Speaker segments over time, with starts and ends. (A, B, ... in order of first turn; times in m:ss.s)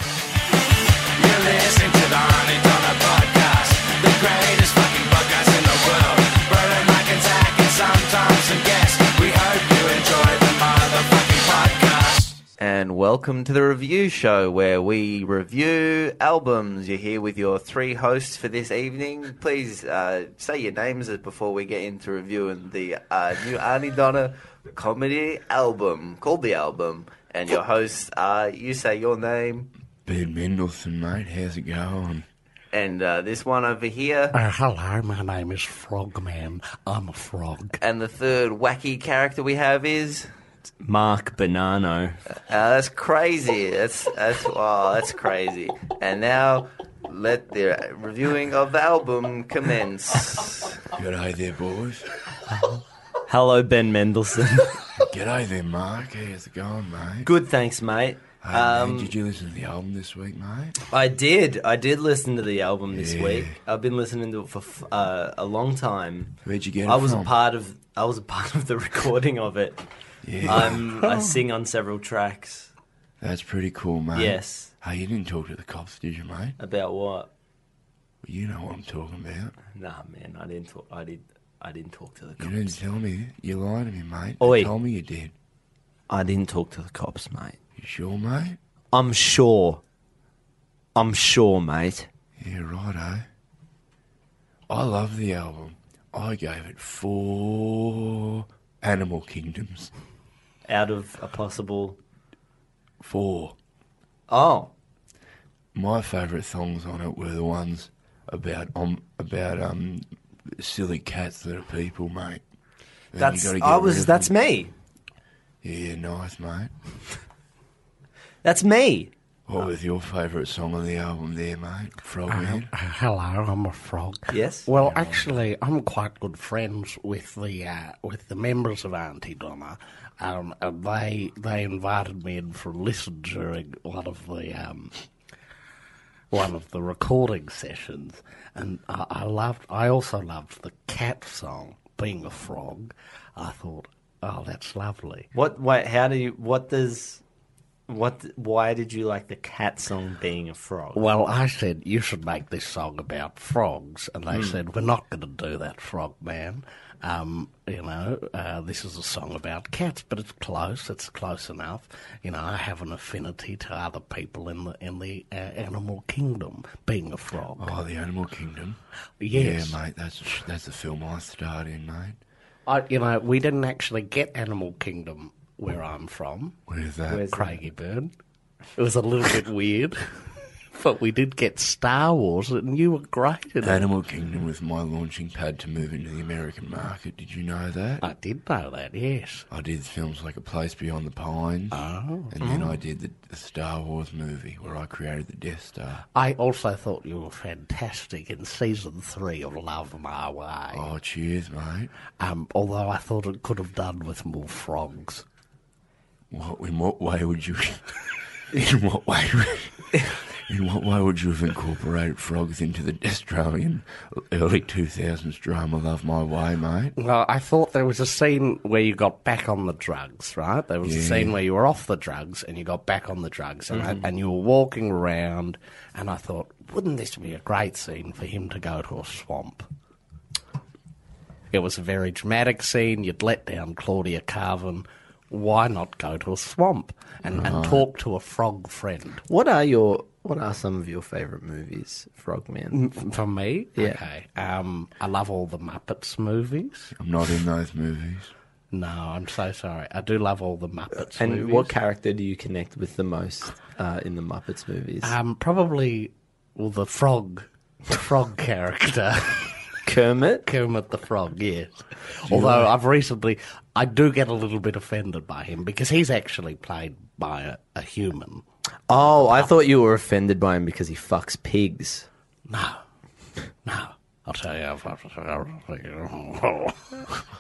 0:01.2-0:12.4 A
0:12.6-0:29.7 B
0:30.0-0:32.2 C
0:32.7-0:34.3 B
0:34.3-0:37.8 D
0:37.8-0:40.3 B
0:40.8-0:42.2 E
0:42.3-0:50.6 B
0:51.0-0:52.1 C
0:53.3-0:54.8 E
0:55.1-0:57.3 C
0:57.2-0:59.1 E
0:58.4-1:00.8 C
1:00.9-1:09.8 E
1:02.9-1:03.5 C
1:06.4-1:07.3 C
1:10.2-1:10.9 C
1:10.4-1:12.7 E
1:11.0-1:11.3 D
1:13.2-1:16.6 C
1:14.2-1:14.7 E
1:16.6-1:17.3 E
1:18.2-1:19.6 C
1:19.7-1:22.8 E
1:22.4-1:25.3 C
1:24.4-1:24.7 E
1:26.1-1:27.6 E
1:27.8-1:28.6 C
1:28.9-1:29.8 E
1:31.0-1:32.1 E
1:32.4-1:33.3 C
1:34.7-1:39.9 C
1:40.7-1:42.0 E
1:43.0-1:43.6 C
1:44.3-1:44.7 E
1:45.7-1:52.4 C
1:53.1-1:54.3 C
1:53.2-1:54.7 E
1:55.6-1:56.7 C
1:58.4-1:59.1 E
1:59.5-2:02.7 C
2:02.3-2:14.9 D
2:04.3-2:04.7 E
2:04.8-2:05.3 C
2:16.3-2:25.3 D
2:25.3-2:27.2 E
2:27.9-2:31.0 E
2:30.9-2:47.7 D
2:34.3-2:34.6 E
2:47.6-2:48.8 C
2:49.2-2:49.8 D
2:49.3-2:52.2 C
2:52.7-2:56.6 D
2:56.7-2:57.3 C
2:57.1-2:57.6 E
2:57.1-2:58.1 D
2:58.8-3:03.9 D
3:03.6-3:08.0 C
3:08.0-3:09.5 D
3:09.5-3:11.8 C
3:11.7-3:12.3 D
3:12.3-3:16.0 C
3:16.1-3:20.9 D
3:20.7-3:21.9 C
3:22.2-3:25.2 D
3:26.3-3:28.0 C
3:28.5-3:36.9 C
3:37.0-3:49.7 D
3:40.8-3:41.3 C
3:51.5-3:59.2 D
3:57.3-3:57.8 C
3:59.3-4:02.9 E
4:02.7-4:06.9 D
4:06.9-4:08.3 C
4:08.7-4:11.7 D
4:11.2-4:15.1 E
4:15.0-4:19.6 D
4:19.8-4:20.4 E
4:20.4-4:28.4 D
4:22.3-4:22.7 C
4:28.9-4:32.1 E
4:32.5-4:32.8 D
4:33.6-4:36.9 D